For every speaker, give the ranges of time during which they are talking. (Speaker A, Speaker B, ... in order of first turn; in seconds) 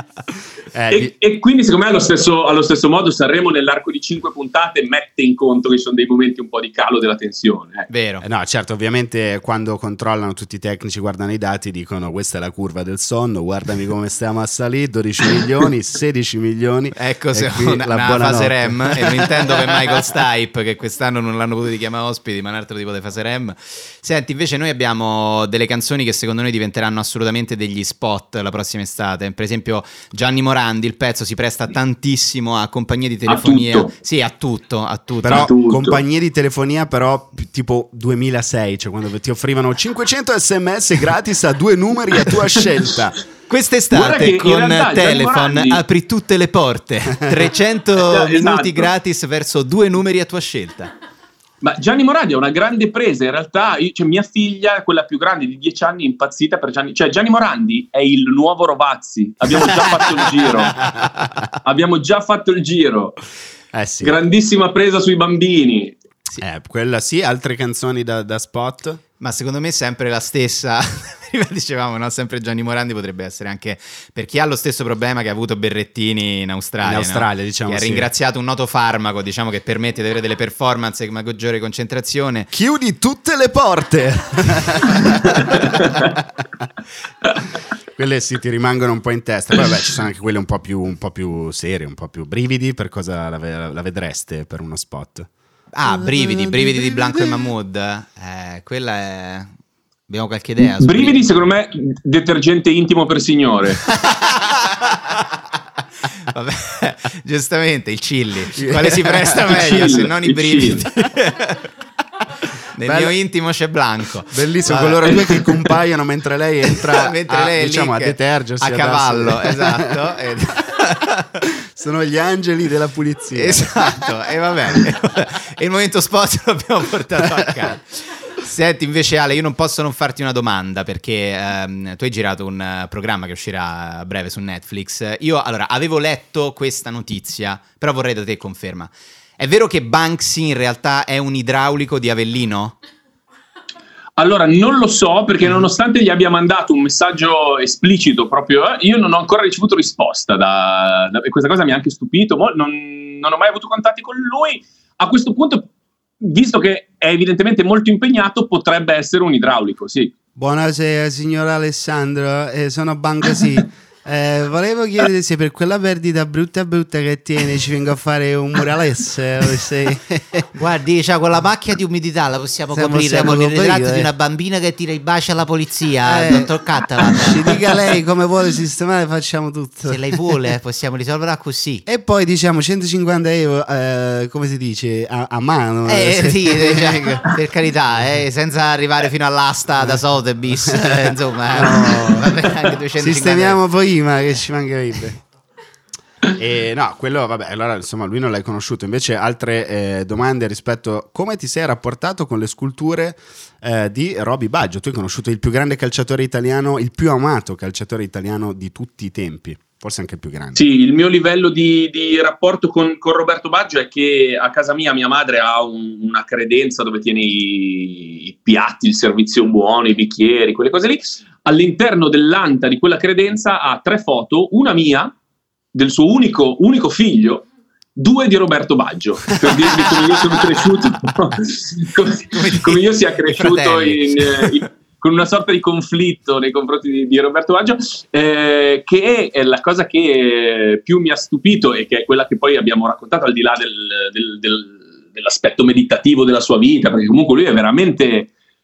Speaker A: 0.7-1.1, 8.2-20.0, 35.2-43.2, 63.7-64.2, 66.4-69.0, 76.8-78.1, 82.5-86.2, 88.0-95.3, 95.9-97.5, 108.5-109.5, 112.8-113.2, 114.3-120.0, 121.4-124.0, 160.3-170.4, 172.7-174.1, 176.0-176.5, 177.1-180.4, 181.8-187.2, 189.8-192.4, 192.9-195.2, 196.3-210.6
Speaker B: 0.9-7.9, 33.3-33.9, 35.3-36.0, 43.9-45.8, 48.0-48.9, 51.6-60.9, 61.6-63.2, 64.0-66.0, 85.8-86.0, 100.8-103.8, 109.5-110.8, 144.2-155.7, 156.2-160.1, 210.5-225.1, 225.7-248.3
Speaker C: 7.9-8.2, 16.9-35.5, 43.5-50.9, 69.2-82.5, 95.7-99.5, 100.1-101.3, 103.8-105.3, 106.1-111.7, 112.7-115.5, 116.9-121.4, 123.3-142.8, 170.5-177.9, 179.8-181.8, 185.9-193.6, 232.3-234.7